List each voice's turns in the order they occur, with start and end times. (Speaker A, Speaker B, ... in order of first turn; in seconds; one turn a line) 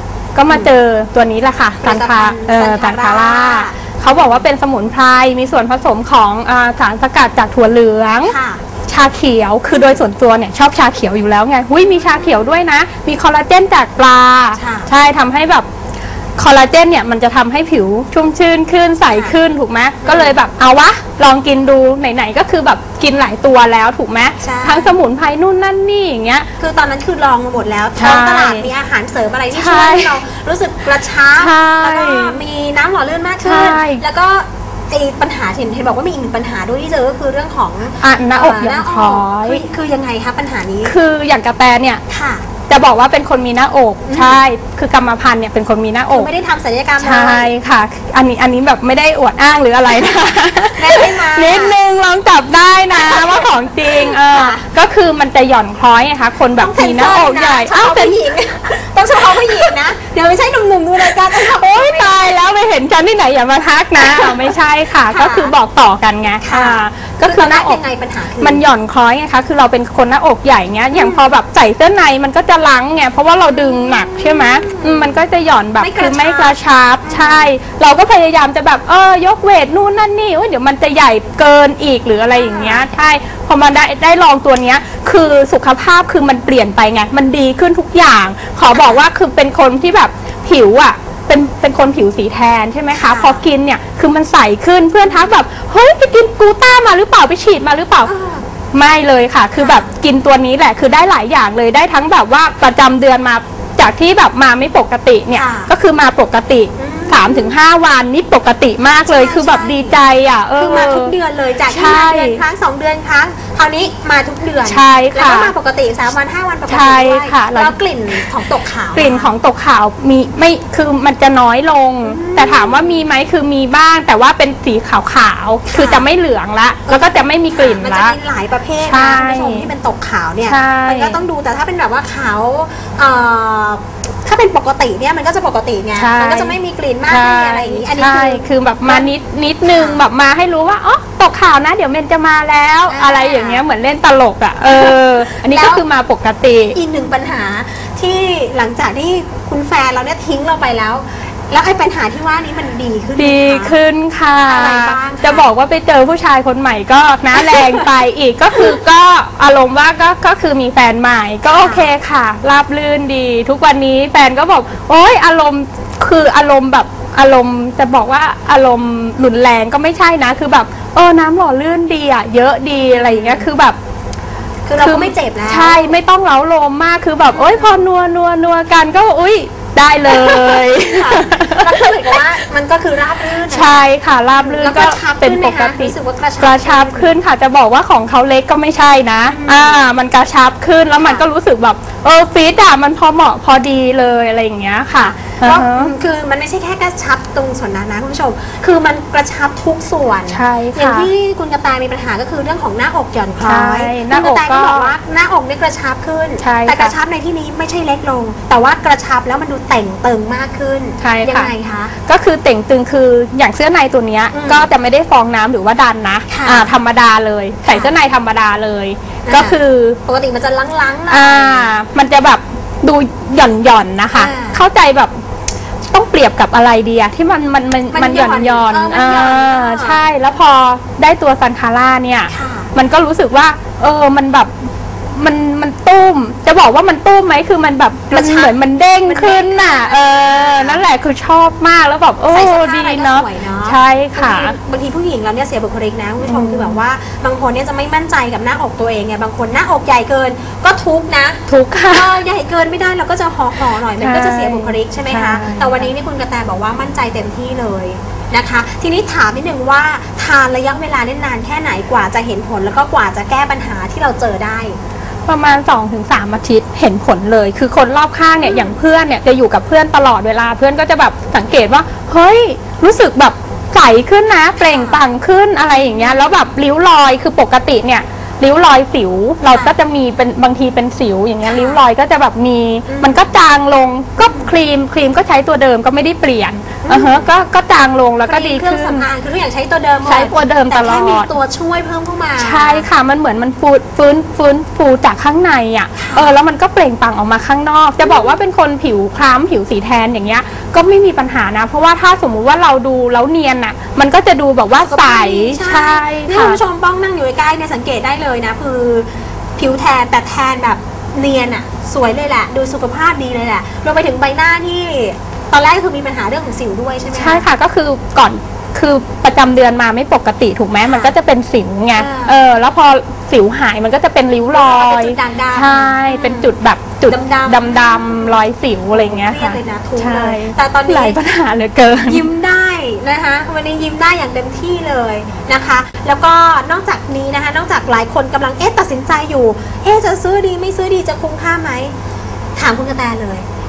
Speaker A: 0.3-8.3
Speaker B: 1.8-4.5
Speaker B: 8.2-8.6
Speaker A: 8.9-15.7
Speaker B: 9.7-10.0
Speaker B: 11.8-12.5
Speaker B: 14.6-14.9
Speaker A: 16.4-26.5
Speaker B: 19.1-19.4
Speaker B: 20.0-20.4
Speaker B: 24.4-25.0
Speaker B: 26.6-41.0
Speaker A: 28.0-28.7
Speaker A: 29.5-30.2
Speaker A: 31.4-32.4
Speaker A: 33.4-34.0
Speaker A: 38.0-39.6
Speaker A: 40.9-42.0
Speaker B: 42.1-42.5
Speaker A: 42.7-46.3
Speaker B: 44.1-44.4
Speaker B: 46.1-47.5
Speaker A: 47.0-58.1
Speaker B: 50.8-51.8
Speaker B: 52.9-54.7
Speaker B: 56.6-62.5
Speaker A: 59.3-59.8
Speaker A: 61.0-67.8
Speaker B: 64.0-64.5
Speaker B: 65.1-65.5
Speaker B: 66.4-68.6
Speaker A: 68.4-98.1
Speaker B: 70.9-71.2
Speaker B: 73.5-75.2
Speaker B: 75.8-77.5
Speaker B: 82.3-82.8
Speaker B: 88.7-89.0
Speaker B: 92.9-93.5
Speaker B: 95.0-95.3
Speaker B: 98.0-98.5
Speaker A: 98.7-111.1
Speaker B: 99.6-99.9
Speaker B: 105.3-105.7
Speaker B: 106.8-107.6
Speaker B: 109.0-110.0
Speaker B: 110.6-119.3
Speaker A: 111.7-112.4
Speaker A: 114.7-115.5
Speaker A: 116.7-118.2
Speaker A: 118.9-128.2
Speaker B: 122.0-123.0
Speaker B: 125.7-126.0
Speaker B: 126.9-139.1
Speaker A: 128.8-129.7
Speaker A: 130.5-131.2
Speaker A: 136.0-136.6
Speaker A: 137.1-146.8
Speaker B: 139.7-140.0
Speaker B: 142.9-143.7
Speaker B: 144.7-145.8
Speaker B: 146.7-153.8
Speaker A: 153.2-173.8
Speaker B: 154.4-155.5
Speaker B: 157.4-157.8
Speaker B: 161.5-161.9
Speaker B: 172.9-173.5
Speaker B: 174.7-175.9
Speaker A: 174.8-181.9
Speaker B: 177.3-177.8
Speaker B: 180.1-187.1
Speaker A: 183.5-195.9
Speaker B: 189.3-189.8
Speaker B: 191.0-191.3
Speaker B: 195.0-211.9
Speaker A: 200.3-201.1
Speaker A: 203.4-204.9
Speaker A: 206.4-206.9
Speaker A: 211.0-211.5
Speaker A: 212.1-220.0
Speaker B: 214.3-214.7
Speaker B: 216.3-216.8
Speaker B: 217.7-217.9
Speaker B: 219.3-221.7
Speaker A: 221.1-225.1
Speaker B: 224.1-224.6
Speaker A: 225.9-234.5
Speaker B: 227.9-230.0
Speaker B: 232.3-232.7
Speaker A: 235.1-244.6
Speaker B: 238.1-240.8
Speaker B: 242.3-264.8
Speaker A: 246.2-246.8
Speaker A: 251.5-252.1
Speaker A: 254.0-255.9
Speaker A: 265.3-289.1
Speaker B: 268.4-268.8
Speaker B: 274.6-275.1
Speaker B: 275.7-276.5
Speaker B: 279.5-279.8
Speaker B: 281.4-281.9
Speaker B: 282.9-283.3
Speaker B: 284.2-284.5
Speaker B: 286.9-287.3
Speaker B: 288.3-292.9
Speaker A: 290.1-291.3
Speaker A: 292.4-306.6
Speaker B: 296.0-296.4
Speaker B: 298.0-298.4
Speaker B: 304.8-317.4
Speaker A: 317.1-332.2
Speaker B: 320.9-321.1
Speaker B: 322.0-322.4
Speaker B: 324.5-326.5
Speaker B: 327.1-331.2
Speaker B: 332.1-341.9
Speaker B: 342.6-343.5